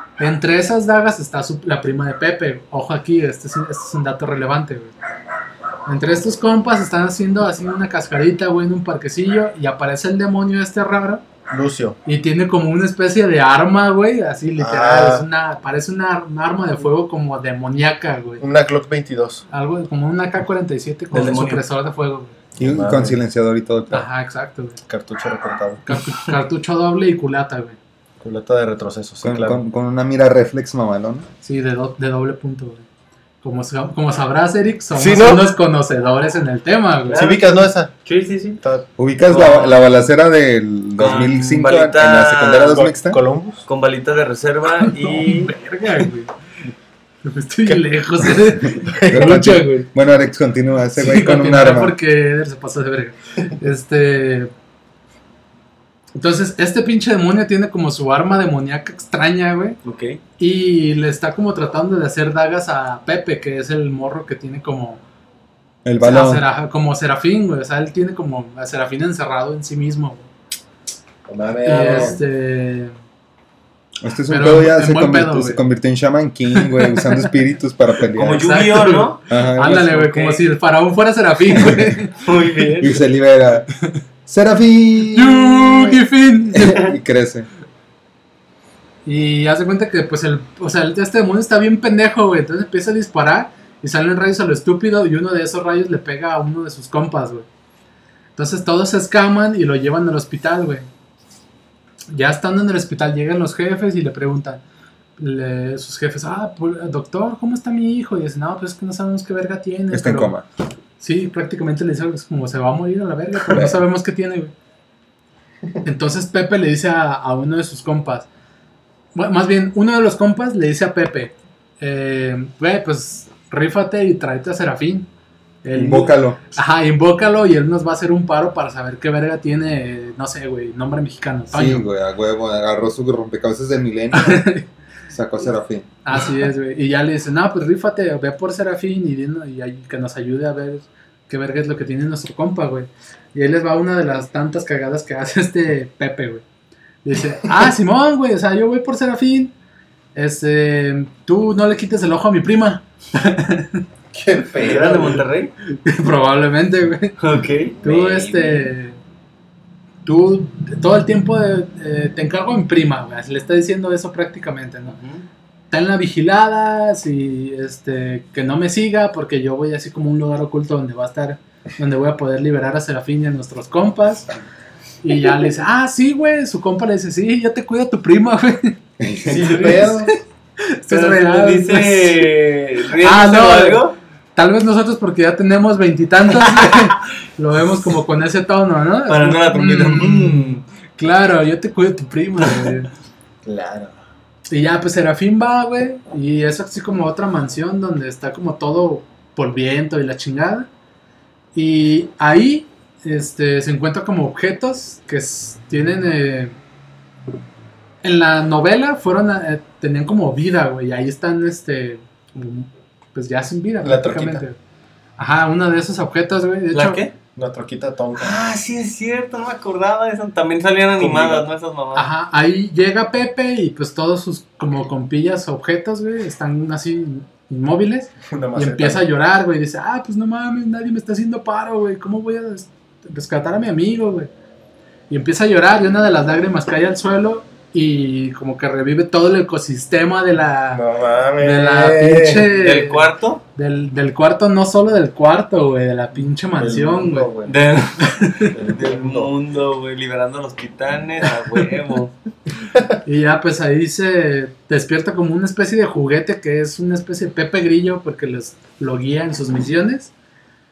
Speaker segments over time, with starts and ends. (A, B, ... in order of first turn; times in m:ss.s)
0:00.2-0:04.9 A
0:05.9-0:11.2 A
0:11.5-0:12.0 B
0:12.0-0:18.4 A
0:14.6-0:15.3 B
0:18.4-0:19.4 B
0:19.5-0:22.3 A
0:21.1-0:21.6 C
0:22.6-0:24.1 D
0:22.6-0:23.2 B
0:23.9-0:24.8 A
0:24.9-0:25.8 B
0:25.9-0:27.8 A
0:28.2-0:29.6 B
0:29.2-0:31.3 D
0:31.4-0:32.9 A
0:33.4-0:37.3 A
0:35.0-0:35.5 B
0:37.1-0:38.6 C
0:37.1-0:37.9 B
0:38.6-0:38.9 B
0:39.0-0:43.2 D
0:39.3-0:39.9 C
0:41.0-0:42.8 C
0:42.7-0:43.7 B
0:43.7-0:45.5 C
0:44.8-0:46.3 A
0:47.2-0:49.9 A
0:48.7-0:49.4 B
0:49.1-0:52.0 D
0:51.0-0:54.5 A
0:56.2-0:59.8 A
0:59.8-1:00.2 C
1:00.4-1:05.0 A
1:05.8-1:06.5 D
1:06.0-1:10.3 A
1:11.3-1:12.2 B
1:11.6-1:12.9 A
1:14.0-1:18.5 D
1:14.3-1:15.6 A
1:16.6-1:17.3 A
1:18.2-1:19.2 C
1:18.4-1:22.2 A
1:19.3-1:20.2 D
1:20.0-1:20.4 C
1:21.6-1:21.9 D
1:22.2-1:23.0 C
1:22.8-1:23.7 D
1:24.3-1:27.5 D
1:25.1-1:26.8 A
1:29.0-1:37.5 A
1:38.4-1:40.9 A
1:42.1-1:44.6 A
1:45.2-1:50.4 A
1:49.9-1:50.4 D
1:51.0-1:54.5 A
1:53.5-1:53.8 D
1:55.8-1:58.3 A
1:59.2-2:05.1 A
2:05.6-2:11.9 A
2:05.7-2:06.4 D
2:11.5-2:14.5 D
2:14.1-2:14.7 A
2:15.1-2:15.9 D
2:16.0-2:26.4 A
2:27.0-2:29.5 A
2:30.2-2:33.8 A
2:34.1-2:35.2 B
2:34.6-2:35.5 C
2:35.8-2:37.2 A
2:37.2-2:37.8 C
2:37.8-2:39.0 A
2:37.8-2:38.6 B
2:40.0-2:45.0 A
2:44.9-2:45.3 C
2:45.7-2:54.3 A
2:55.0-2:58.8 A
2:59.0-2:59.9 D
2:59.2-3:00.2 B
2:59.5-2:59.8 C
2:59.5-3:02.3 A
3:00.9-3:04.0 C
3:03.0-3:03.8 A
3:04.4-3:12.9 A
3:06.6-3:06.9 C
3:09.1-3:10.6 C
3:13.4-3:14.0 B
3:14.5-3:20.7 A
3:21.6-3:26.6 A
3:28.0-3:34.6 A
3:33.8-3:34.4 B
3:35.2-3:37.0 A
3:36.7-3:37.1 C
3:37.4-3:38.3 B
3:38.2-3:42.1 C
3:41.0-3:41.5 B
3:42.0-3:54.3 A
3:48.3-3:49.1 B
3:55.1-4:00.8 A
4:00.7-4:02.5 B
4:01.4-4:07.3 A
4:02.5-4:03.4 C
4:06.6-4:07.6 B
4:07.5-4:12.1 C
4:08.1-4:08.5 A
4:08.5-4:09.3 B
4:13.0-4:20.1 A